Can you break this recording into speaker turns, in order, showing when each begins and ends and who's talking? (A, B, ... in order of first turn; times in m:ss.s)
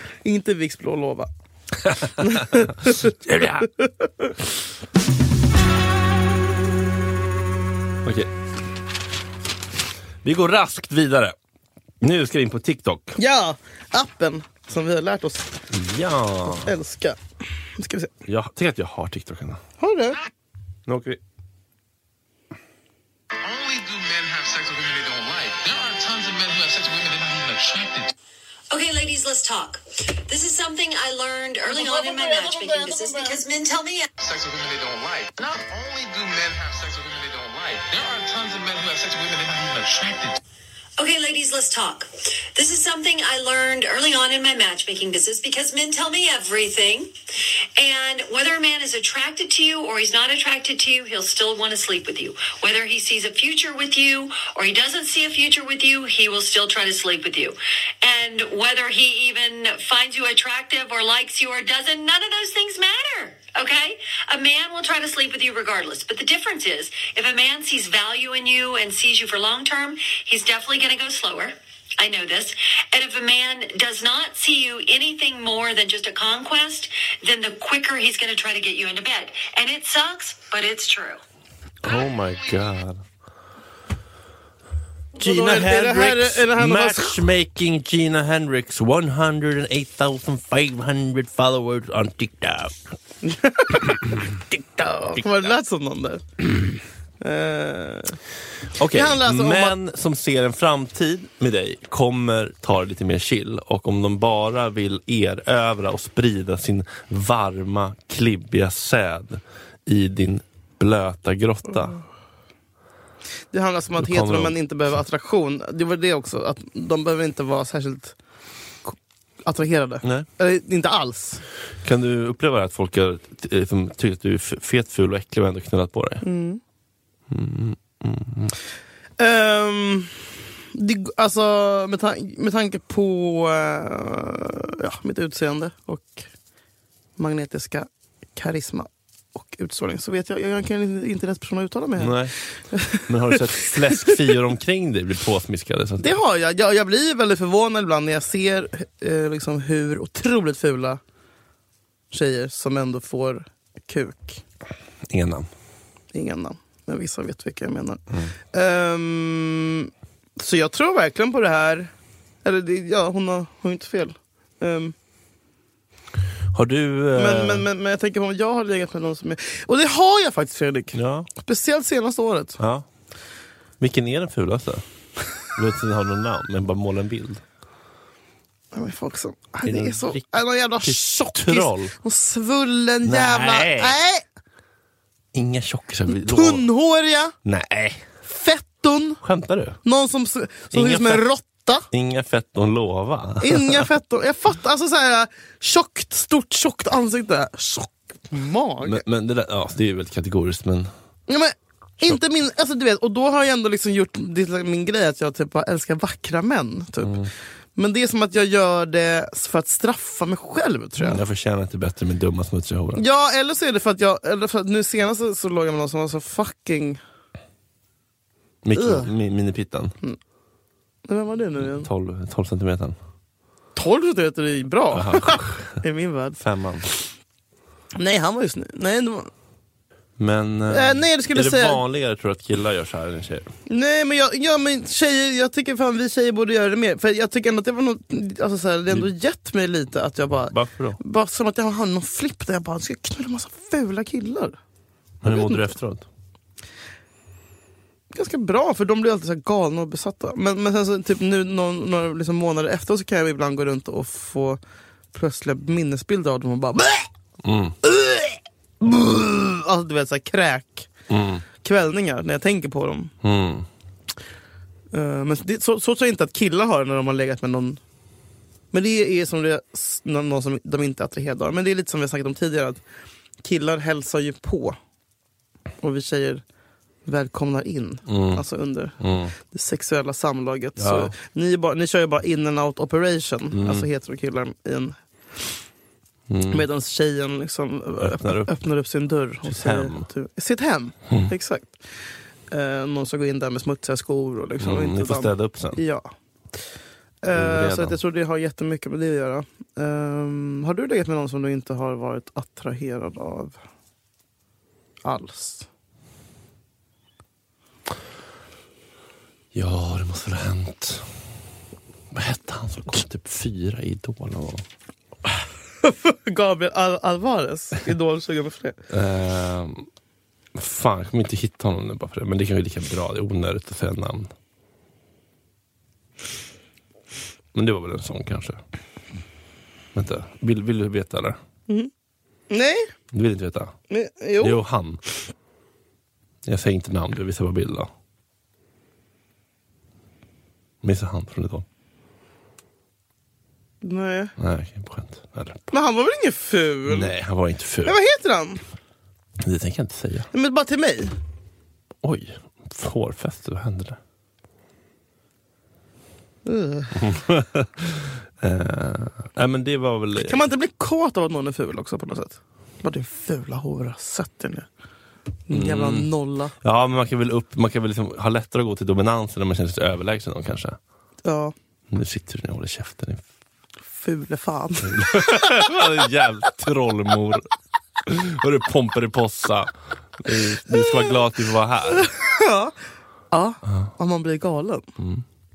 0:00.2-0:01.3 A
0:01.8-0:03.7 B
0:02.2-0:04.3 A
0:08.0-0:08.3 B
0:10.2-0:11.4 B
0:12.0-0:13.2 B
0:13.2-0:15.5 A
0:15.7-0:16.7 B
0:16.5-0:17.2 A
0:17.8-0:18.1 A
0:18.3-0:19.6 B
0:19.8-0:20.2 A
0:20.9-0:21.2 B
0:23.4-0:28.1 C
0:28.7-0:34.1 D
0:31.7-0:33.4 A
0:34.2-0:40.4 C
0:41.0-0:47.1 D
0:47.8-1:21.2 D
1:21.8-1:23.0 B
1:25.2-1:27.2 A
1:25.2-1:32.8 B
1:33.2-1:36.2 A
1:33.8-1:34.3 B
1:35.1-1:35.5 B
1:37.2-1:38.2 A
1:38.8-1:52.0 B
1:38.8-1:39.8 A
1:53.5-1:58.2 A
1:54.0-1:54.6 B
1:58.8-2:01.4 A
2:00.0-2:00.3 B
2:01.8-2:06.2 B
2:06.2-2:06.6 A
2:07.3-2:08.6 B
2:09.2-2:10.2 A
2:10.7-2:16.3 A
2:17.2-2:24.2 A
2:22.0-2:22.3 B
2:22.9-2:26.2 B
2:26.0-2:31.0 A
2:32.1-2:34.4 A
2:35.1-2:35.5 B
2:36.1-2:38.0 A
2:38.5-2:41.9 A
2:42.4-2:45.0 A
2:46.5-2:47.7 B
2:47.2-2:52.6 A
2:50.9-2:51.3 B
2:52.6-2:52.9 B
2:53.8-2:54.8 B
2:55.4-2:57.4 B
2:58.7-3:04.2 A
2:59.6-3:01.9 B
3:03.0-3:04.0 B
3:05.3-3:06.7 B
3:06.1-3:07.4 A
3:07.4-3:08.0 B
3:08.2-3:09.2 A
3:09.2-3:09.8 B
3:09.8-3:11.9 A
3:10.7-3:11.2 B
3:11.9-3:13.9 B
3:13.4-3:19.0 A
3:18.8-3:20.9 B
3:21.3-3:27.2 A
3:27.0-3:27.3 B
3:27.8-3:31.2 A
3:31.0-3:33.0 B
3:33.0-3:37.0 A
3:38.6-3:39.9 B
3:38.7-3:39.1 A
3:41.1-3:41.9 A
3:41.6-3:43.0 B
3:43.8-3:46.4 A
3:44.9-3:45.8 B
3:46.4-3:46.9 B
3:48.0-3:49.3 A
3:50.2-3:53.5 B
3:50.7-3:51.8 A
3:53.7-4:04.6 A
4:00.5-4:01.0 B
4:05.2-4:06.1 B
4:05.3-4:05.7 A
4:08.1-4:14.6 A
4:15.1-4:17.1 A
4:17.4-4:17.8 B
4:17.8-4:20.9 A
4:21.1-4:21.4 B
4:21.6-4:23.1 A
4:23.2-4:23.7 B
4:24.9-4:27.8 A
4:28.7-4:32.8 A
4:33.4-4:34.8 A
4:35.8-4:36.4 A
4:37.1-4:45.0 A
4:38.1-4:38.4 B
4:39.0-4:39.4 B
4:40.8-4:41.1 B
4:43.5-4:43.9 B
4:46.3-4:46.7 B
4:46.5-4:51.8 A
4:48.0-4:48.5 B
4:49.4-4:50.1 B
4:52.5-4:56.1 A
4:54.6-4:55.8 B
4:57.2-5:03.6 A
4:57.3-4:58.0 B
5:05.0-5:05.7 A
5:09.5-5:11.1 B
5:12.1-5:14.6 B
5:15.8-5:18.8 A
5:18.9-5:19.9 B
5:20.6-5:24.3 B
5:27.5-5:28.6 B
5:29.9-5:31.4 B
5:32.5-5:32.9 A
5:33.1-5:33.7 B
5:33.9-5:34.6 A
5:34.4-5:35.0 B
5:36.4-5:37.9 B
5:40.8-5:41.6 B
5:43.8-5:44.3 A
5:44.4-5:45.7 B
5:45.7-5:47.1 A
5:46.9-5:48.0 B
5:47.8-5:48.6 A
5:49.4-5:50.3 B
5:50.3-5:51.2 A
5:52.0-5:54.0 B
5:56.4-5:57.1 A
5:57.0-6:00.4 B
6:00.2-6:04.7 A
6:05.5-6:06.5 A
6:05.5-6:06.1 B
6:06.6-6:10.8 B
6:11.2-6:11.5 A
6:11.9-6:13.2 B
6:13.9-6:15.8 A
6:14.8-6:17.5 B
6:18.0-6:22.1 B
6:20.7-6:21.1 A
6:21.9-6:22.7 A
6:23.3-6:24.9 A
6:25.0-6:25.2 B